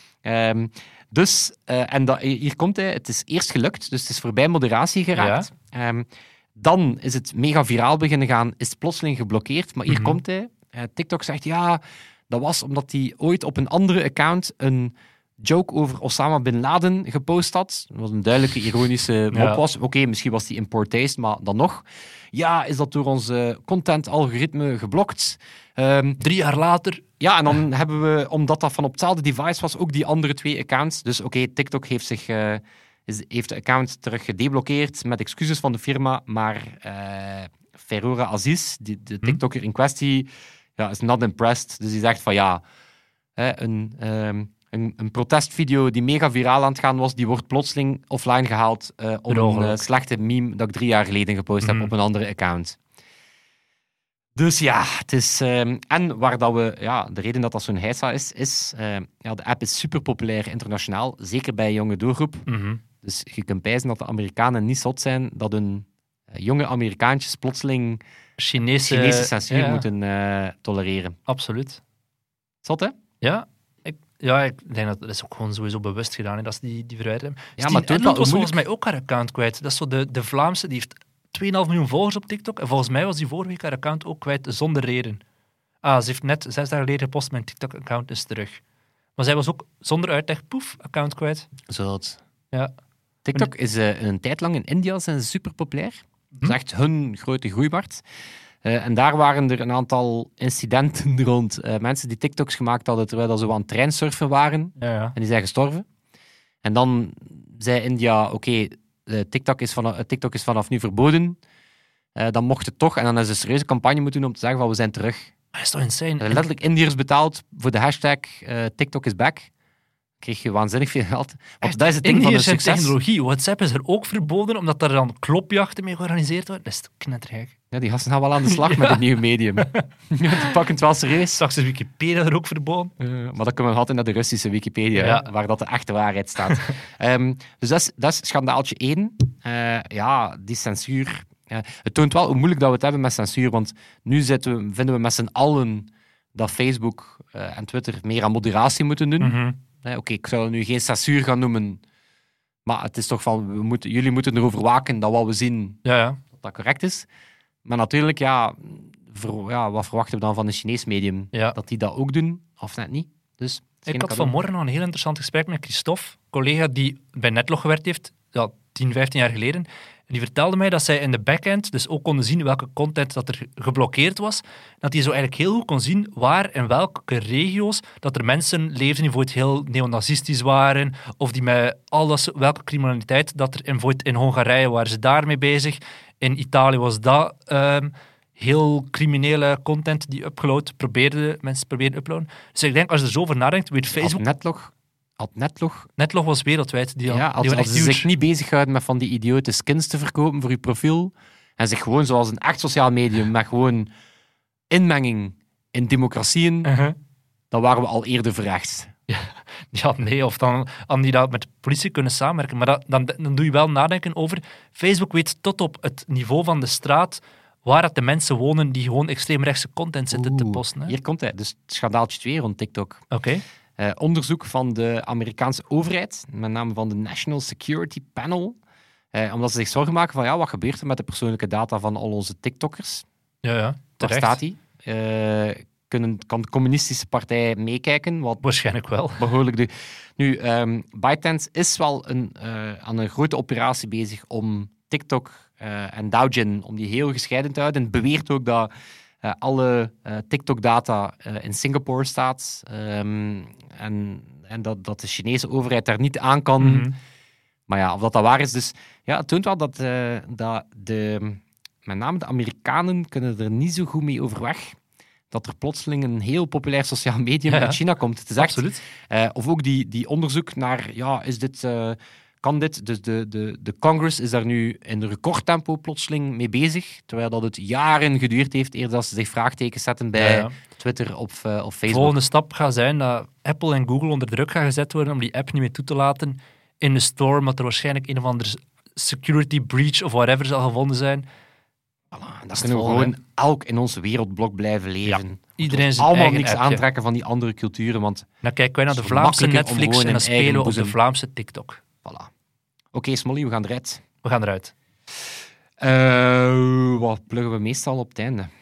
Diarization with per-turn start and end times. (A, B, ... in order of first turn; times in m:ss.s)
0:00.2-0:26.2 A
0:05.2-0:05.5 B
0:09.9-0:10.2 B
0:19.3-0:19.6 B
0:26.2-0:27.0 B
0:27.2-0:42.6 A
0:43.4-0:52.8 A
0:49.3-0:49.8 B
0:51.6-0:51.9 B
0:54.3-1:02.5 A
1:02.5-1:02.8 B
1:03.0-1:08.0 A
1:08.4-1:09.8 B
1:08.8-1:11.2 A
1:11.3-1:11.8 B
1:12.6-1:13.0 A
1:13.2-1:25.2 B
1:17.6-1:18.6 A
1:25.8-1:28.6 B
1:29.2-1:31.5 B
1:31.7-1:32.2 A
1:33.2-1:38.0 A
1:38.6-1:45.8 A
1:44.8-1:45.1 B
1:46.6-1:51.4 A
1:52.1-1:55.3 A
1:55.5-1:56.4 B
1:56.2-1:59.5 A
2:00.2-2:02.9 A
2:01.6-2:07.5 B
2:07.7-2:11.4 A
2:08.4-2:09.0 B
2:09.6-2:09.8 B
2:11.4-2:12.9 B
2:13.0-2:31.8 A
2:14.9-2:15.3 B
2:29.2-2:29.6 B
2:32.6-2:35.8 A
2:35.8-2:36.2 B
2:36.3-2:37.1 A
2:37.6-2:44.3 A
2:43.9-3:14.2 B
3:13.9-3:15.9 A
3:16.0-3:18.1 B
3:17.1-3:23.9 A
3:24.7-3:26.7 A
3:26.6-3:27.0 B
3:27.5-3:28.9 A
3:29.1-3:41.0 B
3:40.1-3:43.0 A
3:43.1-3:43.4 B
3:43.8-3:48.6 A
3:49.1-3:53.0 A
3:53.4-3:54.4 B
3:54.0-3:58.4 A
3:58.4-3:59.3 B
3:59.2-4:08.7 A
4:09.2-4:16.9 A
4:16.6-4:17.0 B
4:17.7-4:24.8 A
4:25.3-4:42.2 A
4:27.5-4:27.8 B
4:28.4-4:28.8 B
4:40.2-4:40.6 B
4:41.9-4:51.2 B
4:52.1-4:58.3 A
4:52.6-4:53.1 B
4:55.0-4:56.8 B
4:58.4-5:01.8 B
4:58.9-5:01.0 A
5:02.0-5:02.3 A
5:02.9-5:04.0 A
5:04.2-5:04.7 B
5:05.8-5:08.5 A